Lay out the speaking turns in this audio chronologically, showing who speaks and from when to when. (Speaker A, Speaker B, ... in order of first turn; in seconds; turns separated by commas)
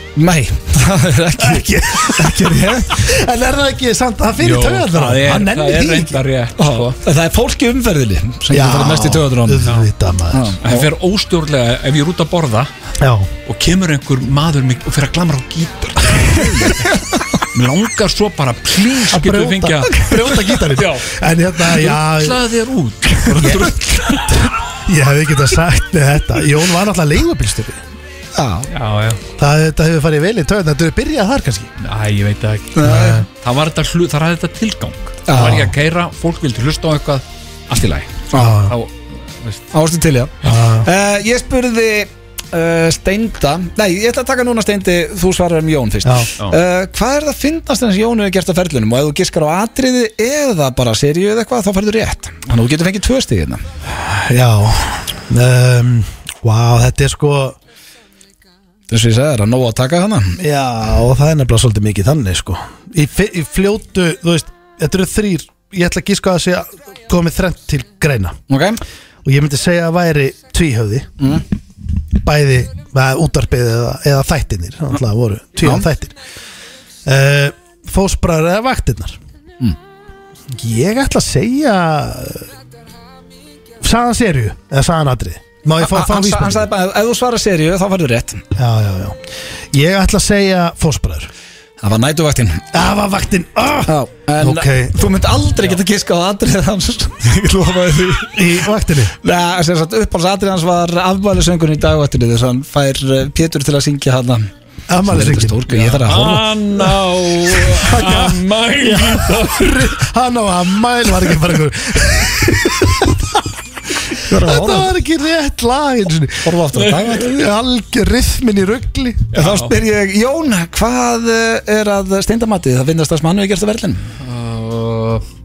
Speaker A: 0.1-3.1, Speaker B: 1.4-6.2, Speaker C: 4.4-7.0, Speaker A: 6.6-9.7, Speaker B: 8.5-10.6, Speaker A: 10.3-10.8, Speaker C: 10.6-12.7, Speaker B: 13.0-13.3, Speaker C: 13.4-21.1, Speaker A: 16.2-17.2, Speaker B: 19.1-22.4, Speaker C: 21.6-24.4, Speaker A: 23.3-23.6, Speaker B: 23.3-27.8, Speaker A: 28.4-28.7, Speaker C: 28.7-29.2, Speaker B: 29.4-31.7, Speaker C: 31.8-39.6, Speaker A: 32.7-33.2, Speaker B: 32.8-33.2, Speaker A: 35.3-35.7, Speaker B: 35.4-35.7, Speaker A: 38.3-38.6, Speaker B: 38.3-38.7, Speaker A: 39.7-53.6, Speaker B: 40.4-40.9, Speaker B: 53.9-57.6, Speaker A: 58.9-60.4, Speaker B: 60.4-68.4, Speaker A: 68.5-68.8, Speaker B: 69.2-71.1, Speaker A: 71.2-71.4, Speaker B: 72.1-76.2, Speaker B: 77.0-79.2, Speaker B: 80.5-82.5, Speaker B: 83.8-86.7, Speaker A: 85.8-88.5, Speaker B: 88.5-91.3, Speaker A: 91.8-92.7, Speaker B: 92.7-95.2, Speaker A: 93.9-98.6, Speaker B: 98.3-99.1, Speaker A: 99.2-104.5, Speaker B: 104.9-105.6, Speaker A: 105.0-106.5, Speaker C: 105.7-110.0, Speaker B: 107.7-108.2, Speaker B: 108.8-113.2, Speaker A: 114.2-114.9, Speaker B: 114.3-119.3, Speaker A: 116.4-117.3, Speaker C: 116.8-117.2, Speaker C: 119.3-119.7, Speaker A: 119.3-124.1, Speaker C: 124.2-125.2